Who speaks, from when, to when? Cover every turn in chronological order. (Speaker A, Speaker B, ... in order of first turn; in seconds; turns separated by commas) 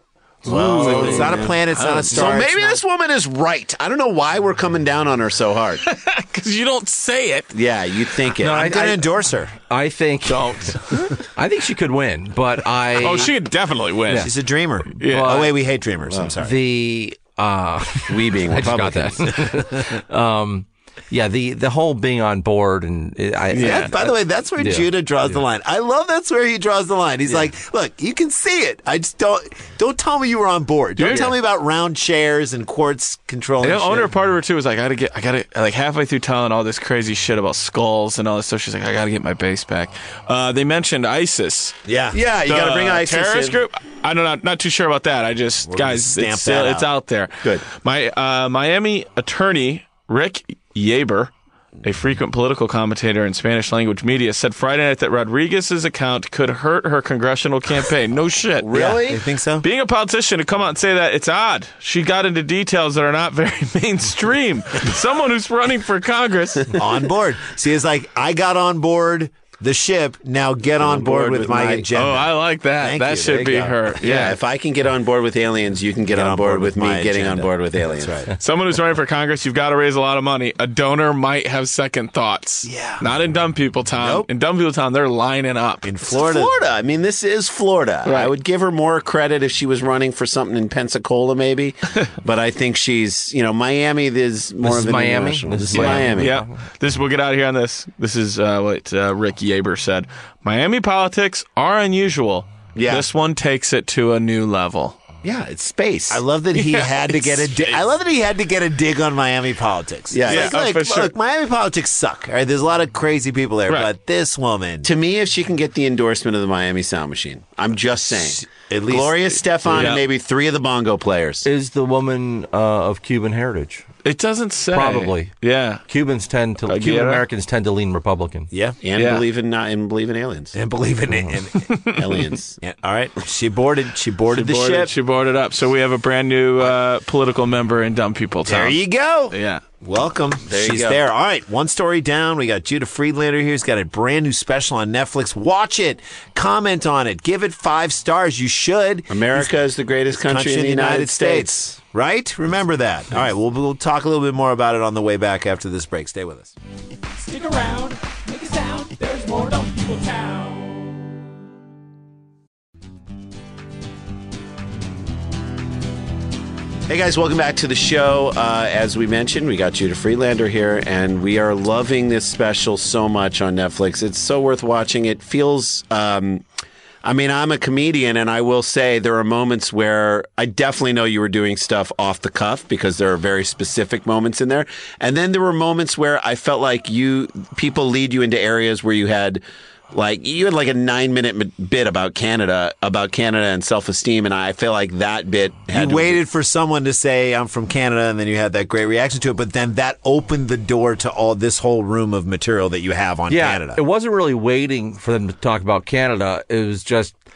Speaker A: 0.4-1.5, Speaker B: 0.4-2.8, Speaker C: 0.5-2.2, Speaker D: 0.5-1.5, Speaker D: 2.1-5.8, Speaker C: 5.8-7.5, Speaker D: 7.5-8.7, Speaker A: 8.4-13.3, Speaker B: 8.4-9.5, Speaker C: 10.2-11.2, Speaker C: 13.0-14.4, Speaker B: 14.1-16.6, Speaker A: 14.9-15.5, Speaker C: 15.0-15.4, Speaker A: 16.4-25.4, Speaker D: 18.1-19.5, Speaker C: 23.5-23.9, Speaker B: 23.6-34.1, Speaker C: 31.0-31.4, Speaker C: 33.6-41.8, Speaker B: 41.9-42.2, Speaker D: 42.1-43.6, Speaker C: 42.4-51.3, Speaker B: 45.7-46.9, Speaker C: 51.8-58.8, Speaker D: 58.6-59.2, Speaker B: 58.7-59.6, Speaker C: 59.6-66.8, Speaker B: 66.7-73.9, Speaker D: 70.8-71.8, Speaker C: 71.9-74.4, Speaker D: 74.0-78.2, Speaker B: 76.1-78.3, Speaker C: 78.4-85.9, Speaker B: 82.6-83.1, Speaker B: 84.0-84.3, Speaker B: 85.8-86.5, Speaker D: 86.1-96.3, Speaker C: 88.0-88.3, Speaker A: 94.6-96.6, Speaker C: 95.7-105.0, Speaker D: 102.8-103.1, Speaker D: 105.2-106.2, Speaker B: 106.1-114.9, Speaker C: 106.5-107.8, Speaker D: 110.1-110.6, Speaker C: 110.2-111.1, Speaker D: 114.8-121.5, Speaker B: 118.1-120.0, Speaker C: 119.7-120.0, Speaker A: 121.4-123.8, Speaker C: 124.0-125.8, Speaker A: 124.7-125.3, Speaker A: 125.9-128.5, Speaker C: 126.7-127.2, Speaker B: 128.5-128.8, Speaker D: 128.8-130.6, Speaker C: 128.9-129.2, Speaker B: 130.5-131.9, Speaker C: 131.6-132.0, Speaker D: 131.9-132.6, Speaker B: 132.6-134.9, Speaker C: 134.3-138.8, Speaker B: 138.4-149.6, Speaker C: 139.3-139.6, Speaker D: 140.5-141.0, Speaker D: 149.1-151.7, Speaker B: 150.1-156.5, Speaker E: 157.2-160.7, Speaker D: 166.9-176.4, Speaker D: 177.0-196.2, Speaker B: 195.7-203.8, Speaker A: 203.3-207.2